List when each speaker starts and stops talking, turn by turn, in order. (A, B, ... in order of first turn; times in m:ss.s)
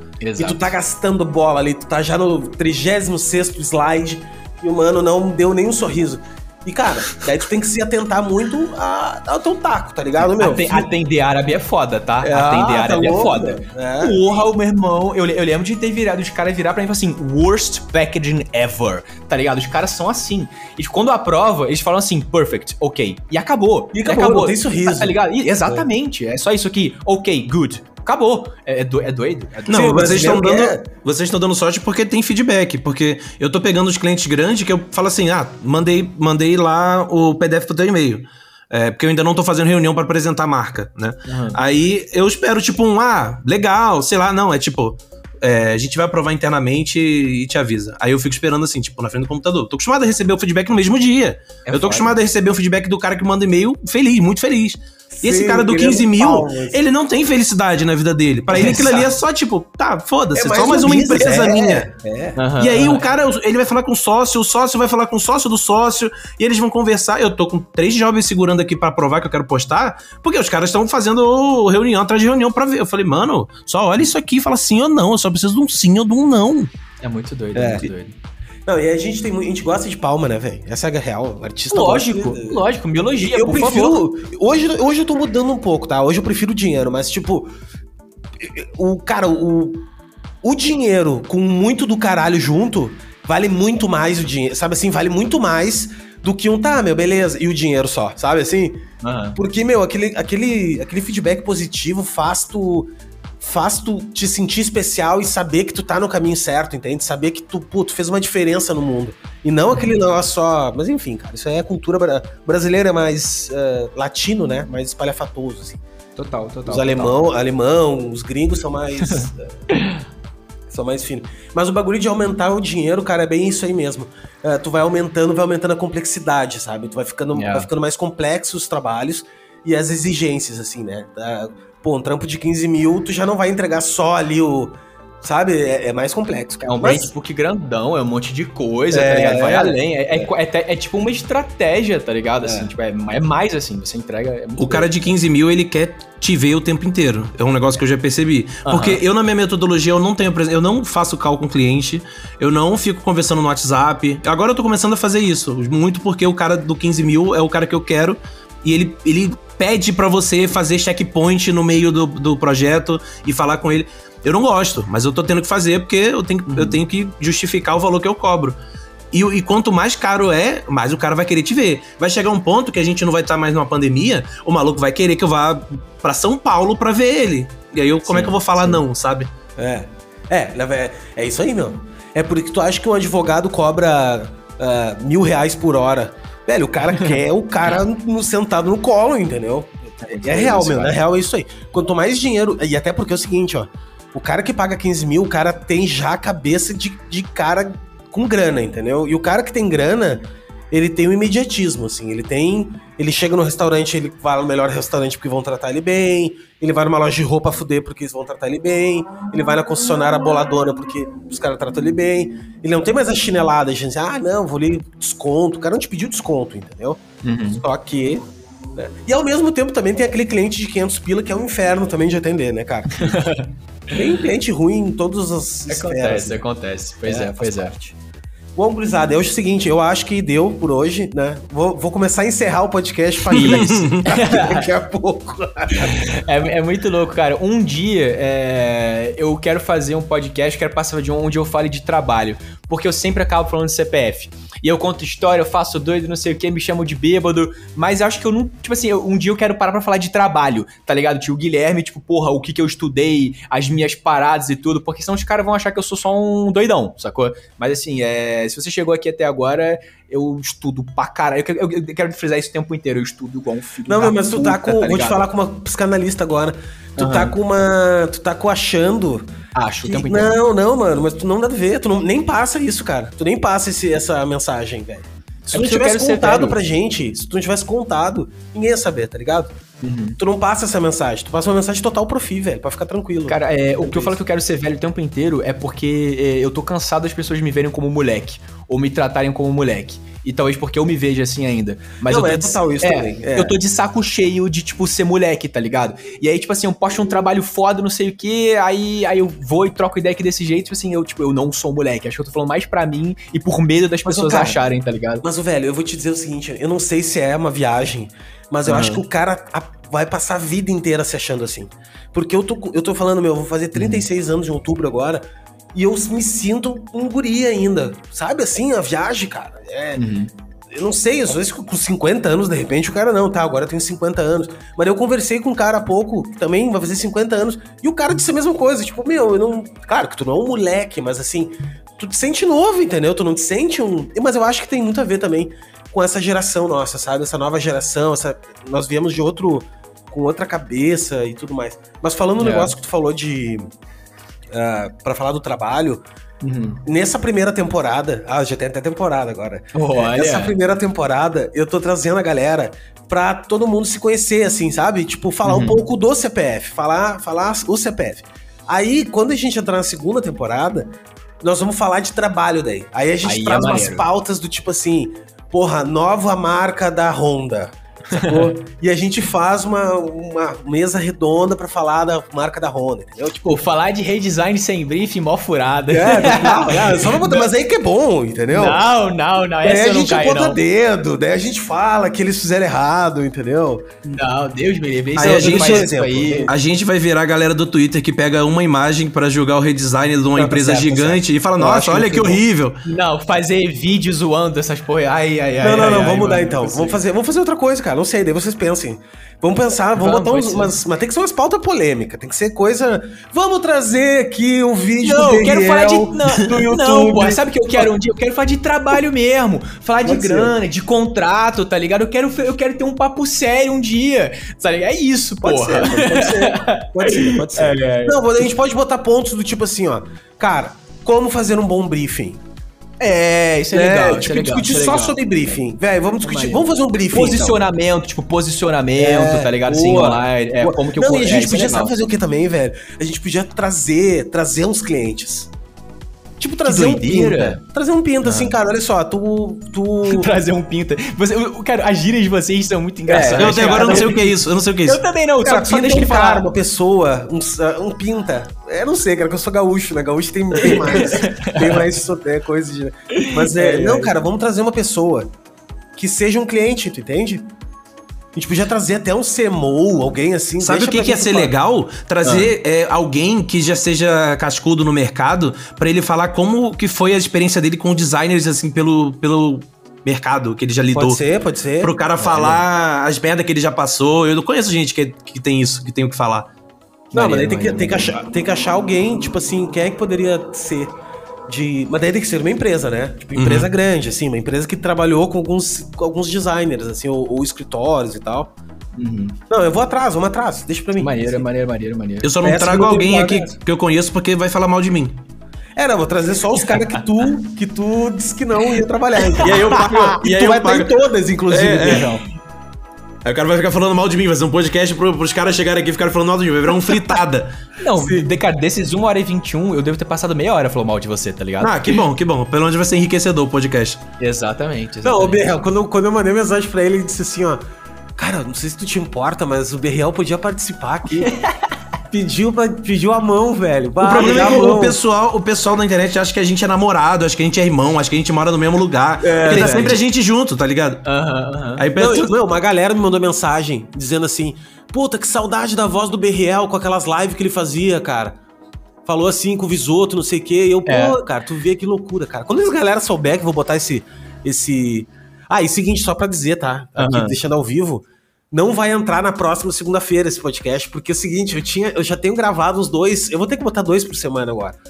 0:00.2-0:00.7 A
0:00.4-0:10.9 B
0:10.2-0:30.4 A
0:12.2-0:14.2 B
0:23.9-0:25.8 B
0:29.7-1:01.9 C
0:29.7-0:30.9 B
0:41.3-0:41.6 A
0:51.7-0:52.1 A
0:55.2-0:56.8 B
0:58.5-0:59.0 A
1:00.4-1:02.4 B
1:02.4-1:03.1 A
1:02.6-1:16.7 C
1:17.0-1:18.1 A
1:17.6-1:17.9 B
1:18.7-1:22.6 B
1:21.7-1:24.0 A
1:23.2-1:27.5 B
1:28.4-1:29.9 B
1:30.4-1:38.8 B
1:39.0-1:39.4 A
1:39.4-1:55.8 B
1:56.2-1:57.2 A
1:56.7-1:59.5 B
1:59.0-2:00.0 A
2:00.7-2:17.1 B
2:07.3-2:07.7 A
2:16.6-2:24.9 A
2:18.9-2:20.3 B
2:22.4-2:22.7 B
2:24.6-2:48.6 C
2:28.6-2:29.0 A
2:49.1-2:59.3 C
2:58.1-2:58.8 A
2:59.6-3:43.2 B
3:10.0-3:11.0 A
3:37.2-3:37.6 A
3:43.0-3:43.5 A
3:43.9-3:46.4 B
3:45.7-3:47.8 A
3:47.0-3:47.9 B
3:48.6-3:56.1 B
3:53.3-3:54.7 A
3:53.4-3:54.1 C
3:55.8-4:25.3 A
4:23.9-4:29.3 B
4:27.0-4:27.3 A
4:29.6-4:30.4 A
4:29.8-4:39.5 B
4:35.5-4:36.6 A
4:39.8-4:40.2 A
4:40.2-4:44.2 B
4:43.3-5:05.2 A
4:52.1-4:53.6 B
5:04.0-5:04.6 B
5:05.2-5:15.2 B
5:08.7-5:09.0 A
5:13.7-5:14.0 A
5:15.7-5:20.0 B
5:20.0-5:20.3 A
5:20.7-5:43.6 B
5:42.4-5:42.7 A
5:44.5-5:46.0 B
5:46.4-5:46.8 A
5:46.8-6:13.6 B
5:49.7-5:50.6 A
5:55.4-5:55.8 A
6:03.2-6:04.0 A
6:08.1-6:08.5 A
6:13.5-6:17.5 A
6:15.9-6:18.8 B
6:18.5-6:20.6 A
6:19.6-6:23.9 B
6:24.0-6:26.5 A
6:25.2-6:25.9 C
6:25.2-6:26.5 B
6:26.5-6:32.8 C
6:30.4-6:32.4 B
6:32.8-6:37.0 A
6:35.6-6:47.9 B
6:40.0-6:40.8 A
6:45.0-6:58.3 A
6:50.0-6:50.6 B
6:55.4-7:02.4 B
7:03.0-7:05.2 A
7:03.7-7:07.6 B
7:06.2-7:12.0 A
7:09.0-7:15.5 B
7:16.4-7:20.3 B
7:16.6-7:17.6 A
7:18.2-7:18.5 A
7:20.0-7:24.2 A
7:23.1-7:24.2 B
7:23.4-7:25.0 C
7:24.8-7:26.5 A
7:25.4-7:35.3 B
7:30.6-7:31.8 A
7:33.1-7:34.1 A
7:36.0-7:37.5 B
7:38.3-7:41.5 B
7:40.6-7:51.2 C
7:42.2-7:42.5 A
7:50.9-7:51.9 B
7:51.8-7:56.5 C
7:52.2-7:52.6 A
7:57.1-7:58.2 A
7:57.1-8:00.9 B
8:01.5-8:08.5 B
8:03.4-8:03.7 C
8:09.0-8:09.4 A
8:09.5-8:11.4 B
8:11.0-8:12.3 A
8:12.2-8:15.2 C
8:12.4-8:13.5 B
8:15.8-8:22.1 B
8:19.4-8:20.2 A
8:19.4-8:20.9 C
8:21.5-8:22.1 C
8:21.5-8:22.2 A
8:23.2-8:27.6 C
8:27.8-8:32.0 A
8:28.0-8:28.3 B
8:31.6-8:34.0 C
8:34.2-8:35.5 A
8:35.0-8:37.6 B
8:38.2-8:41.3 B
8:41.2-8:41.7 A
8:42.1-8:45.0 B
8:44.0-8:51.0 C
8:44.2-8:44.6 A
8:49.2-8:50.0 B
8:49.4-8:50.0 A
8:51.0-8:51.9 A
8:51.8-8:52.3 C
8:52.0-8:58.4 B
8:59.0-9:14.8 B
9:00.9-9:01.2 A
9:07.0-9:07.4 A